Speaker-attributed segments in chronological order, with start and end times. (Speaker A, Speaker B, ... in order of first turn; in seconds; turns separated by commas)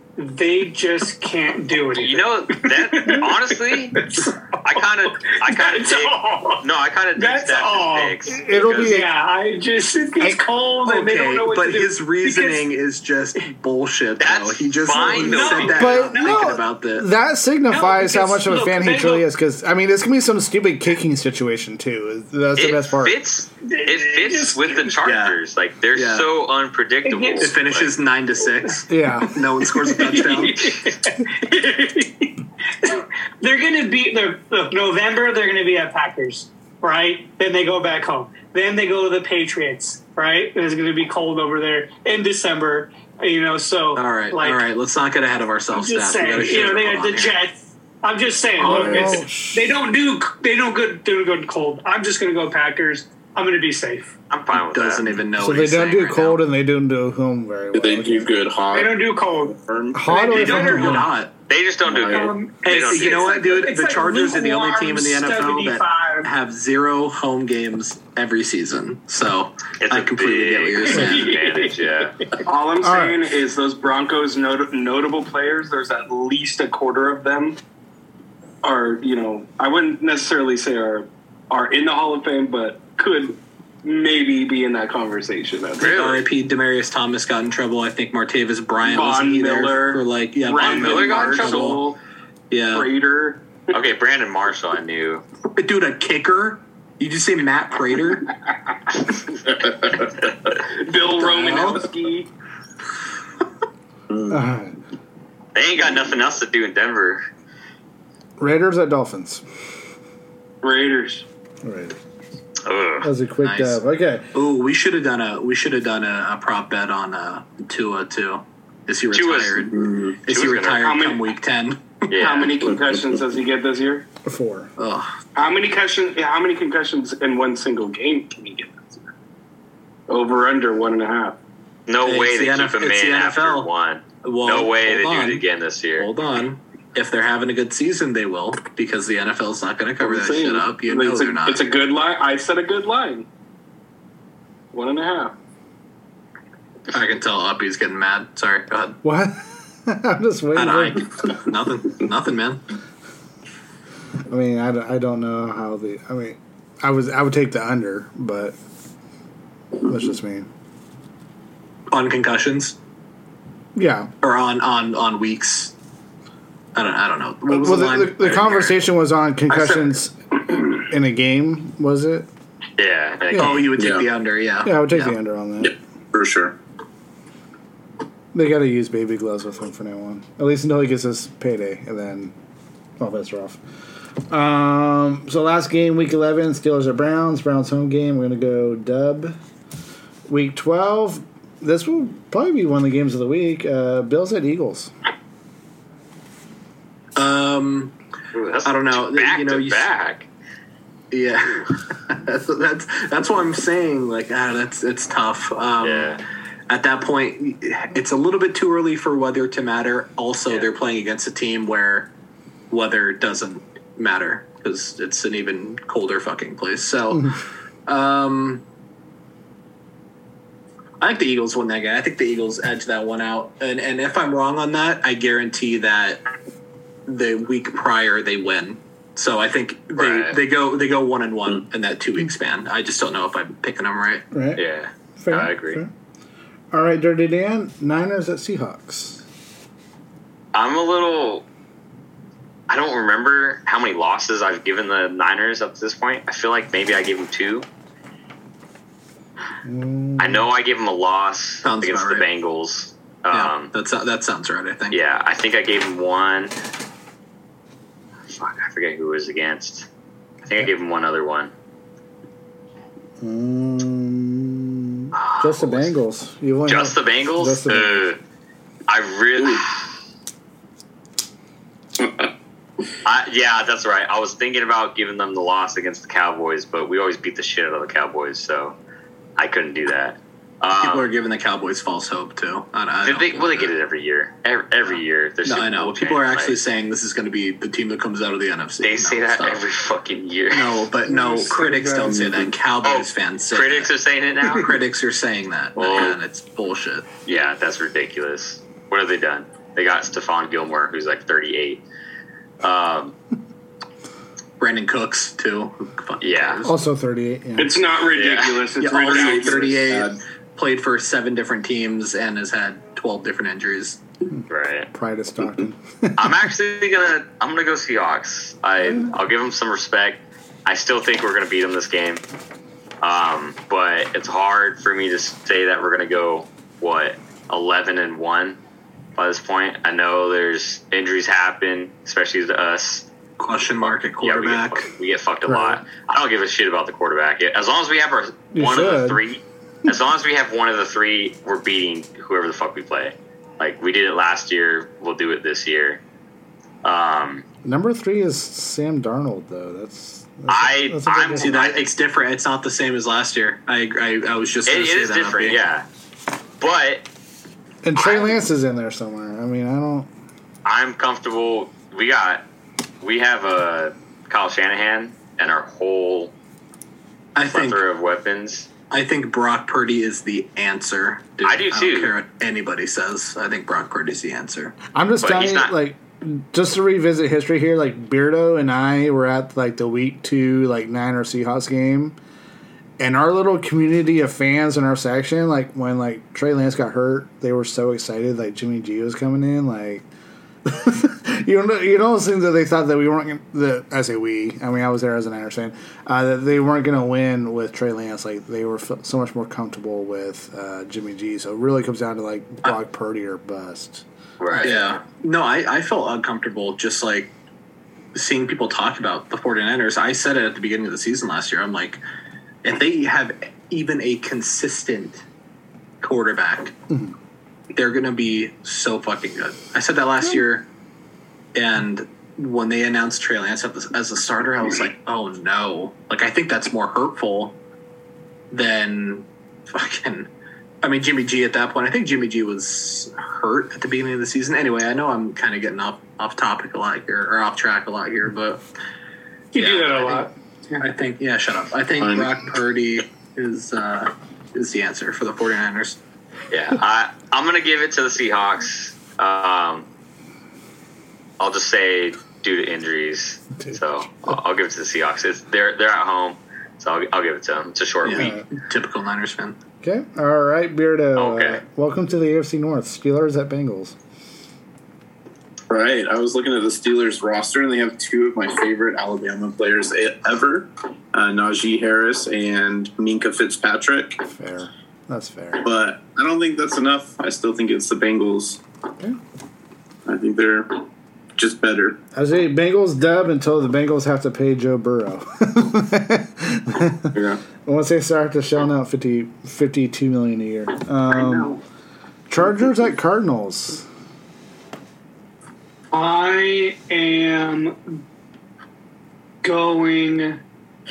Speaker A: 0.2-6.6, Speaker B: 1.9-4.0, Speaker B: 4.6-9.0, Speaker A: 7.2-8.2, Speaker C: 8.3-9.1, Speaker A: 8.7-12.7, Speaker D: 10.9-17.1, Speaker B: 14.2-15.9, Speaker A: 14.9-16.6, Speaker C: 15.7-23.2, Speaker A: 17.7-19.2, Speaker B: 22.6-27.9, Speaker A: 23.6-24.9, Speaker D: 25.0-25.4, Speaker D: 25.9-26.3, Speaker A: 27.1-27.5, Speaker D: 27.4-30.8, Speaker C: 28.9-29.5, Speaker A: 29.6-44.6, Speaker D: 43.9-47.4, Speaker A: 45.7-54.1, Speaker C: 48.6-49.7, Speaker E: 48.7-49.0, Speaker B: 54.3-55.1, Speaker D: 54.7-56.4, Speaker C: 55.4-58.3, Speaker E: 57.7-60.0, Speaker A: 58.7-61.1, Speaker C: 59.9-61.1, Speaker D: 60.3-61.3, Speaker B: 61.5-63.4, Speaker E: 61.9-62.3, Speaker A: 62.0-66.3, Speaker D: 62.6-71.4, Speaker B: 69.8-72.2, Speaker A: 70.9-71.7, Speaker F: 72.4-77.6, Speaker C: 72.8-73.2, Speaker F: 78.6-86.0, Speaker B: 85.8-86.2, Speaker D: 85.8-91.8, Speaker F: 88.8-92.0, Speaker B: 90.5-91.8, Speaker D: 92.5-92.9, Speaker F: 92.7-93.4, Speaker B: 93.7-95.2, Speaker D: 95.6-98.3, Speaker E: 99.6-100.0, Speaker F: 100.7-102.3, Speaker D: 101.2-101.9, Speaker E: 104.1-104.4, Speaker C: 104.3-104.7, Speaker B: 105.5-107.2, Speaker C: 108.4-109.4, Speaker F: 110.6-111.2, Speaker C: 111.6-111.9, Speaker B: 112.6-113.1, Speaker C: 113.0-114.3, Speaker D: 113.4-113.8, Speaker D: 114.3-122.0, Speaker B: 119.1-119.7, Speaker E: 119.8-120.1, Speaker B: 120.3-120.8, Speaker F: 120.8-121.2, Speaker B: 122.1-122.5, Speaker F: 122.1-124.1, Speaker C: 124.2-124.7, Speaker D: 124.8-125.2, Speaker F: 125.3-129.1, Speaker F: 130.1-131.4, Speaker B: 131.9-136.1, Speaker D: 132.1-133.7, Speaker D: 134.2-135.4, Speaker D: 136.0-141.6, Speaker F: 140.0-143.2, Speaker F: 144.7-145.3, Speaker D: 146.9-149.0, Speaker C: 149.0-151.0, Speaker D: 150.6-152.6, Speaker C: 154.3-158.6, Speaker C: 159.8-160.5, Speaker D: 161.9-162.8, Speaker C: 163.7-164.1, Speaker D: 164.2-165.7, Speaker D: 166.7-168.8, Speaker C: 167.5-172.3, Speaker F: 169.5-169.8, Speaker B: 172.8-173.7, Speaker C: 173.3-173.6, Speaker D: 173.3-175.1, Speaker E: 173.8-174.1, Speaker C: 174.6-175.7, Speaker E: 175.6-176.6, Speaker C: 178.3-182.3, Speaker C: 183.0-183.6, Speaker C: 184.3-189.4, Speaker C: 190.3-194.9, Speaker D: 197.2-197.9, Speaker B: 198.3-200.3, Speaker D: 198.6-199.9, Speaker D: 201.1-206.1, Speaker B: 205.8-206.2, Speaker D: 206.7-212.1, Speaker D: 212.7-217.4, Speaker D: 217.9-218.6, Speaker D: 221.0-226.2, Speaker D: 227.1-234.2, Speaker B: 229.9-230.4, Speaker C: 234.3-234.6, Speaker B: 234.6-235.8, Speaker C: 235.2-235.9, Speaker C: 236.7-239.2, Speaker B: 240.5-241.4, Speaker B: 242.7-247.7, Speaker C: 249.6-250.5, Speaker B: 250.2-253.7, Speaker D: 251.6-252.3, Speaker D: 253.3-255.0, Speaker B: 254.9-256.5, Speaker B: 258.3-259.9, Speaker B: 260.4-261.5, Speaker C: 263.2-268.1, Speaker B: 265.1-265.9, Speaker B: 266.7-268.2, Speaker B: 268.9-269.8, Speaker E: 272.0-272.3, Speaker B: 273.1-278.7, Speaker B: 279.4-281.1, Speaker D: 280.8-283.7, Speaker B: 283.0-286.6, Speaker D: 284.9-289.6, Speaker B: 288.8-290.9, Speaker D: 290.5-293.9, Speaker A: 291.1-292.3, Speaker B: 292.8-294.7, Speaker D: 294.4-297.1, Speaker B: 295.8-296.2, Speaker B: 297.2-301.8, Speaker B: 302.6-303.1, Speaker D: 304.6-306.7, Speaker B: 306.2-306.6, Speaker C: 306.6-307.7, Speaker F: 307.6-309.9, Speaker B: 308.1-308.7, Speaker D: 308.8-314.0, Speaker E: 309.0-310.2, Speaker B: 314.5-314.9, Speaker C: 314.9-316.5, Speaker B: 316.2-322.2, Speaker C: 318.8-319.1, Speaker B: 323.0-328.6, Speaker B: 329.1-333.1, Speaker D: 333.4-334.9, Speaker B: 334.2-346.0, Speaker C: 335.4-335.8, Speaker C: 338.5-339.2, Speaker B: 346.8-347.4, Speaker C: 347.6-351.6, Speaker B: 350.5-351.9, Speaker D: 351.4-355.6, Speaker B: 354.6-355.9, Speaker B: 356.6-357.1, Speaker C: 357.8-360.1, Speaker B: 358.0-358.3, Speaker B: 360.6-362.4, Speaker B: 363.0-366.3, Speaker D: 367.4-367.8, Speaker B: 367.5-368.7, Speaker D: 368.9-374.8, Speaker B: 371.4-372.1, Speaker C: 374.9-382.1, Speaker B: 375.2-375.7, Speaker C: 383.0-390.1, Speaker C: 390.6-404.8, Speaker B: 404.4-405.0, Speaker D: 404.6-407.3, Speaker D: 408.1-412.0, Speaker D: 412.6-415.2, Speaker D: 416.0-416.7, Speaker D: 417.7-420.6, Speaker D: 421.5-427.6, Speaker D: 428.5-430.3, Speaker D: 430.8-438.6, Speaker A: 439.5-440.9, Speaker D: 439.6-440.2, Speaker D: 440.8-446.0, Speaker E: 442.0-442.3, Speaker B: 446.5-449.9, Speaker B: 451.4-458.4, Speaker C: 453.6-454.3, Speaker D: 458.0-459.6, Speaker C: 458.1-458.4, Speaker C: 459.8-463.9, Speaker B: 461.1-461.6, Speaker E: 465.7-474.2, Speaker C: 474.2-475.7, Speaker E: 475.6-478.6, Speaker E: 480.1-480.8, Speaker E: 481.4-482.0, Speaker C: 482.1-491.6, Speaker E: 487.1-487.4, Speaker F: 491.1-491.5, Speaker C: 492.3-493.9, Speaker A: 495.9-498.0, Speaker A: 499.4-500.4